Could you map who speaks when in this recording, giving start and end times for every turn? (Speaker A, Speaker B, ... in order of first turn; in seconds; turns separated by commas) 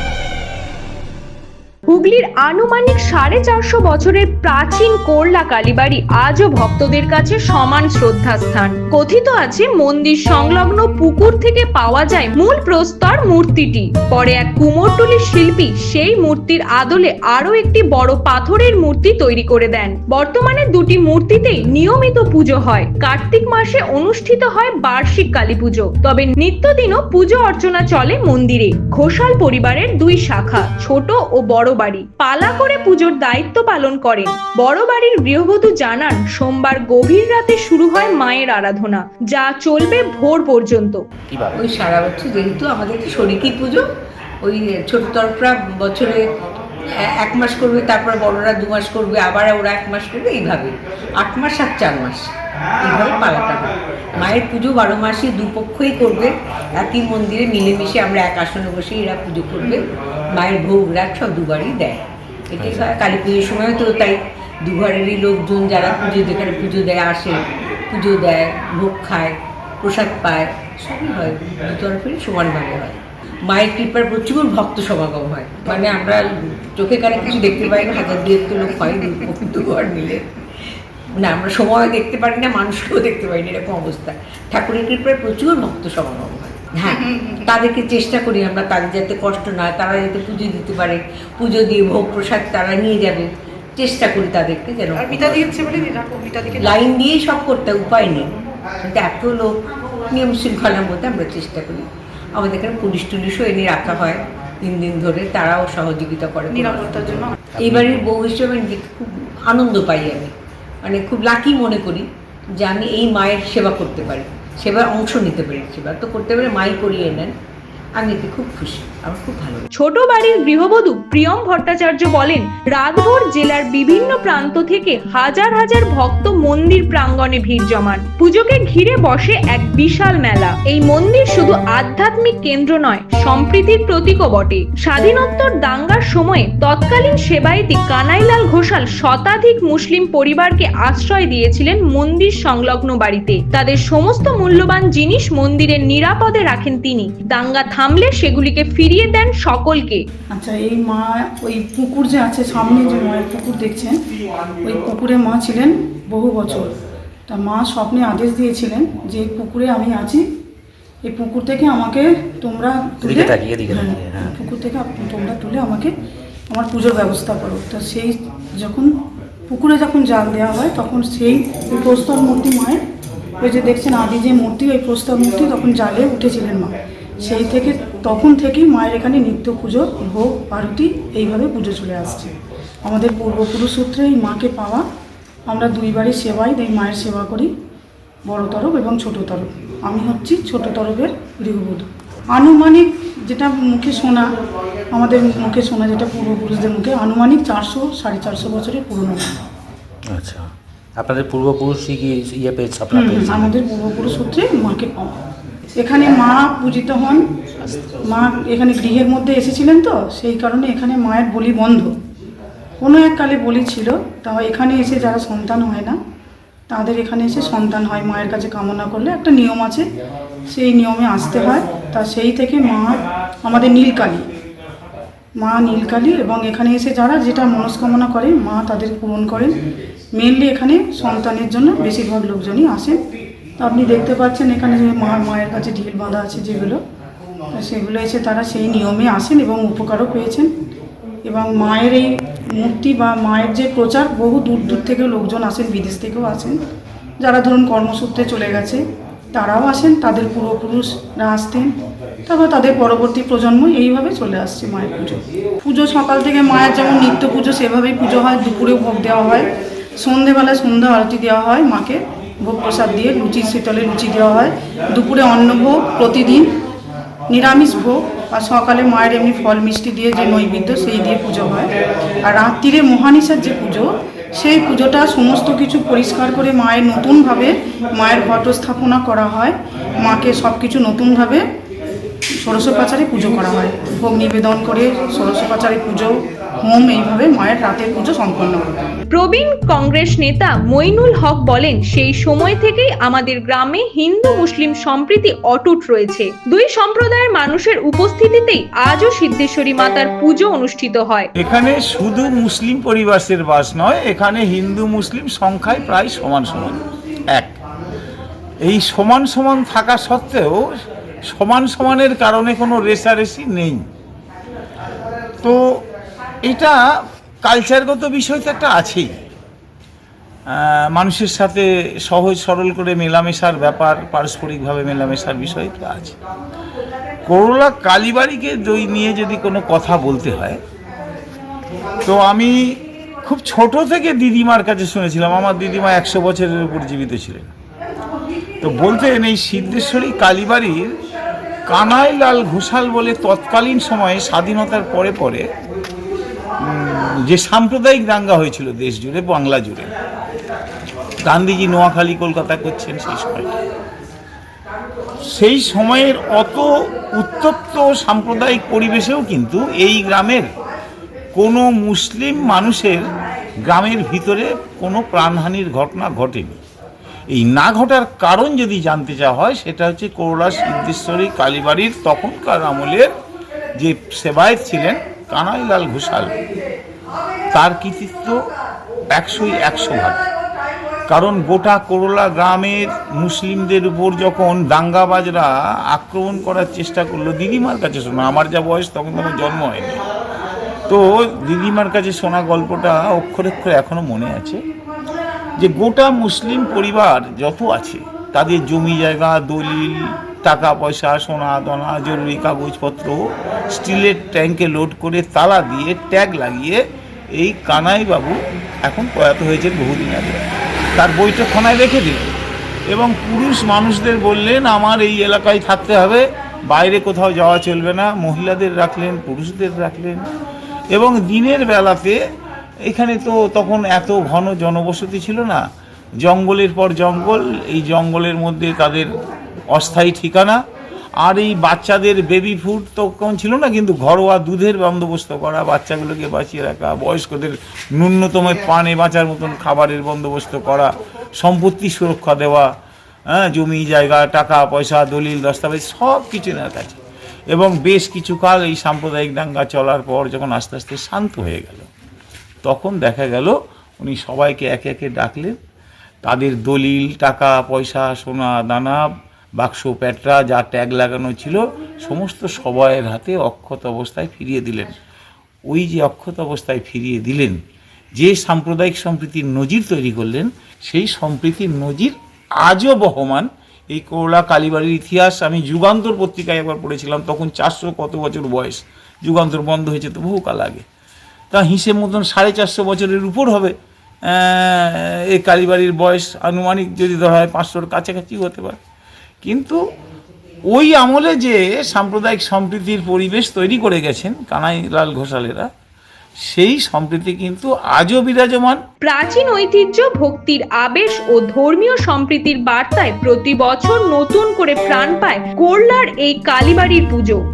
Speaker A: 1.9-41.0, Speaker B: 41.3-41.6, Speaker C: 41.5-43.8, Speaker C: 44.4-46.2, Speaker C: 47.2-76.2, Speaker B: 54.1-54.4, Speaker B: 62.6-63.0, Speaker C: 76.8-80.2, Speaker C: 81.2-95.7, Speaker D: 95.4-96.5, Speaker C: 96.6-98.3, Speaker C: 98.8-99.5, Speaker C: 100.1-110.3, Speaker B: 107.5-108.1, Speaker C: 110.8-112.0, Speaker C: 112.6-117.3, Speaker C: 118.0-119.7, Speaker A: 119.8-150.0, Speaker D: 150.3-154.0, Speaker D: 154.6-156.7, Speaker D: 157.3-160.2, Speaker D: 161.0-165.9, Speaker B: 163.0-164.3, Speaker D: 166.5-168.9, Speaker D: 169.5-172.8, Speaker D: 173.4-184.8, Speaker D: 185.4-187.5, Speaker D: 188.2-194.3, Speaker D: 194.9-199.3, Speaker B: 200.1-203.5, Speaker D: 202.9-205.2, Speaker D: 205.8-207.3, Speaker B: 207.6-207.9, Speaker D: 208.0-211.9, Speaker D: 212.8-216.0, Speaker D: 216.7-219.9, Speaker D: 220.5-224.3, Speaker D: 225.4-229.6, Speaker D: 230.1-233.0, Speaker D: 233.6-236.8, Speaker D: 237.5-240.5, Speaker D: 241.2-246.6, Speaker D: 247.2-251.7, Speaker D: 252.2-266.5, Speaker D: 267.3-271.7, Speaker D: 272.2-281.4, Speaker D: 282.4-288.7, Speaker A: 289.1-301.3, Speaker E: 301.4-307.5, Speaker E: 308.6-310.6, Speaker E: 311.3-313.8, Speaker E: 315.4-315.8, Speaker E: 316.4-316.8, Speaker E: 317.4-319.2, Speaker E: 320.5-326.2, Speaker E: 327.2-330.6, Speaker E: 332.0-337.5, Speaker E: 338.6-340.9, Speaker E: 341.6-345.5, Speaker E: 346.6-349.9, Speaker E: 351.2-353.5, Speaker E: 355.3-360.4, Speaker E: 361.3-363.0, Speaker E: 363.6-366.6, Speaker E: 367.3-373.1, Speaker E: 373.8-376.4, Speaker E: 377.5-378.4, Speaker E: 379.1-380.2, Speaker E: 381.1-390.0, Speaker E: 390.9-394.6, Speaker E: 395.6-403.2, Speaker E: 403.7-410.4, Speaker E: 411.0-412.3, Speaker E: 412.9-420.3, Speaker E: 420.9-422.2, Speaker E: 422.9-425.6, Speaker E: 426.2-429.1, Speaker E: 429.7-430.6, Speaker E: 431.2-442.7, Speaker E: 443.3-451.9, Speaker E: 452.6-455.6, Speaker E: 456.2-459.0, Speaker E: 459.6-465.0, Speaker E: 465.7-467.6, Speaker E: 468.1-480.8, Speaker E: 481.5-483.7, Speaker E: 484.3-488.8, Speaker E: 489.4-489.8, Speaker E: 490.7-495.7, Speaker E: 496.5-498.8, Speaker A: 499.0-507.4